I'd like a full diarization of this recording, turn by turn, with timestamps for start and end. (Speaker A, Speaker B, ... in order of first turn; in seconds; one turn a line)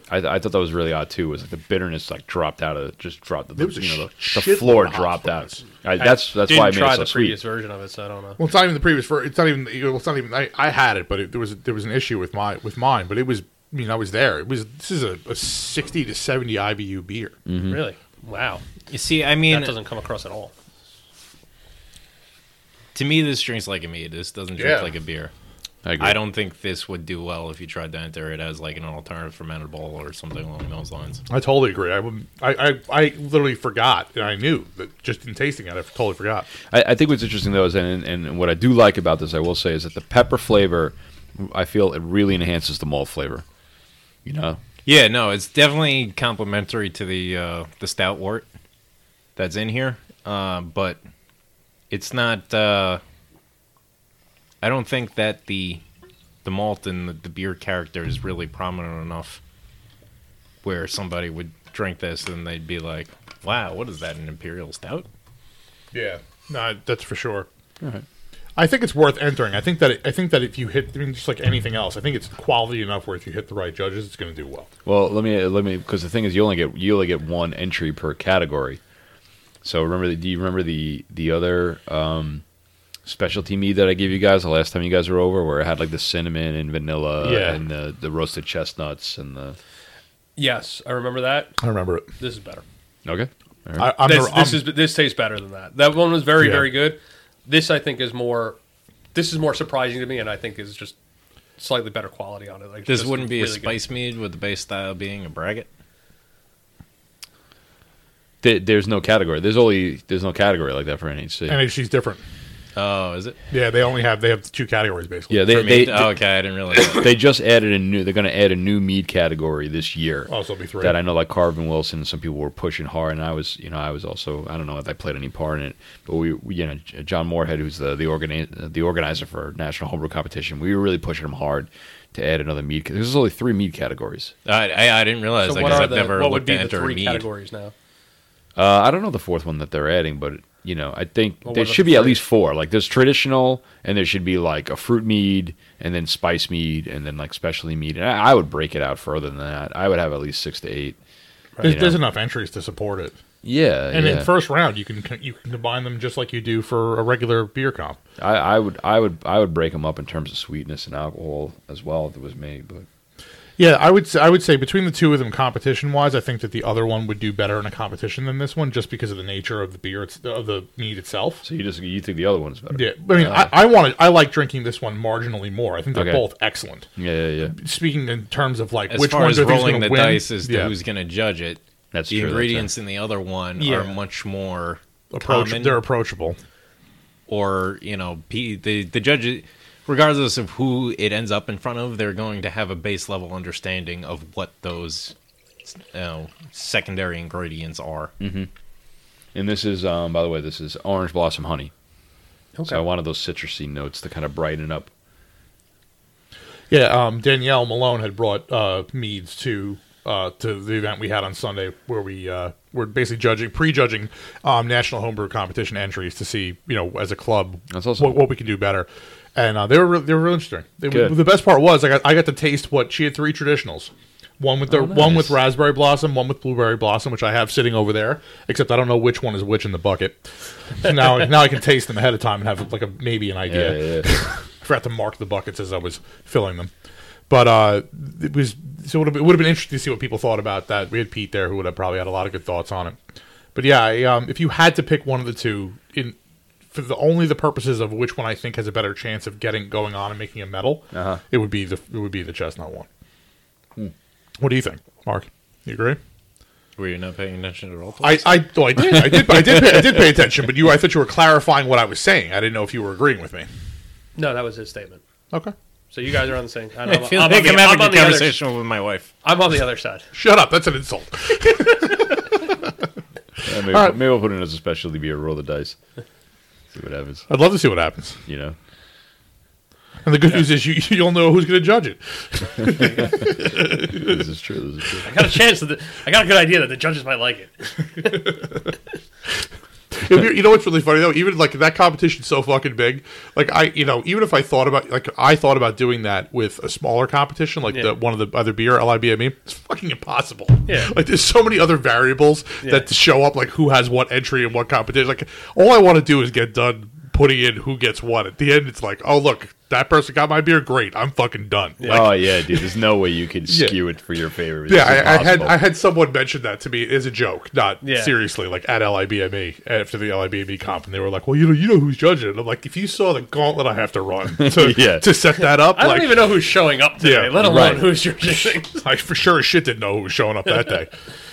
Speaker A: 0.1-7.4
Speaker B: 3.5-5.6
Speaker C: 6.0-8.4
Speaker B: 8.4-17.4
Speaker A: 17.4-17.8
Speaker C: 17.7-18.6
Speaker D: 18.9-19.7
Speaker C: 19.5-20.5
Speaker D: 22.9-25.3
Speaker B: 24.6-24.9
Speaker A: 25.8-26.2
Speaker D: 26.0-31.2
Speaker B: 31.3-36.5
Speaker A: 36.7-43.4
Speaker A: 44.2-44.6
Speaker D: 44.8-48.5
Speaker D: 49.4-51.0
Speaker D: 51.9-53.0
Speaker D: 54.6-55.8
Speaker D: 56.4-59.4
Speaker D: 60.6-65.0
Speaker B: 65.9-67.5
Speaker B: 68.6-74.7
Speaker A: 74.8-78.8
Speaker A: 79.6-82.4
Speaker A: 83.0-89.6
Speaker B: 87.2-87.6
Speaker C: 90.3-91.6
Speaker B: 91.6-92.1
Speaker C: 92.2-92.6
Speaker A: 93.0-93.9
Speaker B: 93.8-94.7
Speaker C: 94.0-98.6
Speaker B: 96.4-96.7
Speaker C: 99.1-100.9
Speaker C: 101.6-103.7
Speaker D: 102.9-105.7
Speaker A: 108.4-111.6
Speaker B: 111.5-112.2
Speaker D: 112.8-113.4
Speaker B: 113.5-115.5
Speaker A: 115.3-134.3
Speaker D: 115.5-117.1
Speaker B: 120.3-121.0
Speaker D: 134.4-137.2
Speaker C: 135.4-137.7
Speaker A: 135.6-135.9
Speaker A: 138.6-151.0
Speaker C: 141.4-142.2
Speaker B: 151.6-153.2
Speaker A: 151.6-152.0
Speaker A: 153.4-154.3
Speaker B: 153.9-158.0
Speaker A: 158.2-162.8
Speaker B: 163.6-171.4
Speaker A: 171.4-173.5
Speaker B: 172.7-176.9
Speaker A: 175.9-176.2
Speaker A: 176.9-177.5
Speaker B: 177.5-180.7
Speaker D: 178.9-185.8
Speaker A: 181.9-182.7
Speaker C: 183.6-183.9
Speaker B: 185.1-186.4
Speaker D: 187.3-195.1
Speaker D: 195.7-198.1
Speaker A: 198.2-198.5
Speaker A: 199.3-201.7
Speaker C: 202.6-202.8
Speaker A: 202.7-204.9
Speaker B: 206.7-230.3
Speaker A: 217.7-218.2
Speaker A: 220.9-221.2
Speaker A: 224.7-225.4
Speaker B: 230.8-236.7
Speaker A: 233.5-234.1
Speaker B: 237.3-243.0
Speaker B: 243.5-246.2
Speaker B: 246.7-252.9
Speaker A: 250.9-251.2
Speaker B: 254.4-256.0
Speaker D: 256.8-258.5
Speaker B: 258.0-263.5
Speaker A: 258.8-260.0
Speaker C: 264.1-265.0
Speaker C: 265.9-268.4
Speaker D: 266.8-269.1
Speaker C: 269.2-270.1
Speaker B: 270.1-272.6
Speaker A: 273.4-275.8
Speaker B: 273.5-274.0
Speaker A: 276.7-277.3
Speaker B: 277.3-278.2
Speaker A: 278.3-278.6
Speaker B: 280.0-284.2
Speaker A: 282.8-285.2
Speaker C: 285.0-288.2
Speaker B: 288.0-288.4
Speaker B: 289.9-312.4
Speaker C: 300.6-300.9
Speaker C: 302.6-302.9
Speaker C: 311.8-312.1
Speaker A: 311.9-315.6
Speaker B: 313.5-313.8
Speaker B: 314.7-326.4
Speaker C: 317.8-318.1
Speaker A: 324.4-325.1
Speaker C: 325.4-328.8
Speaker B: 327.0-327.7
Speaker A: 327.4-327.9
Speaker B: 328.8-330.9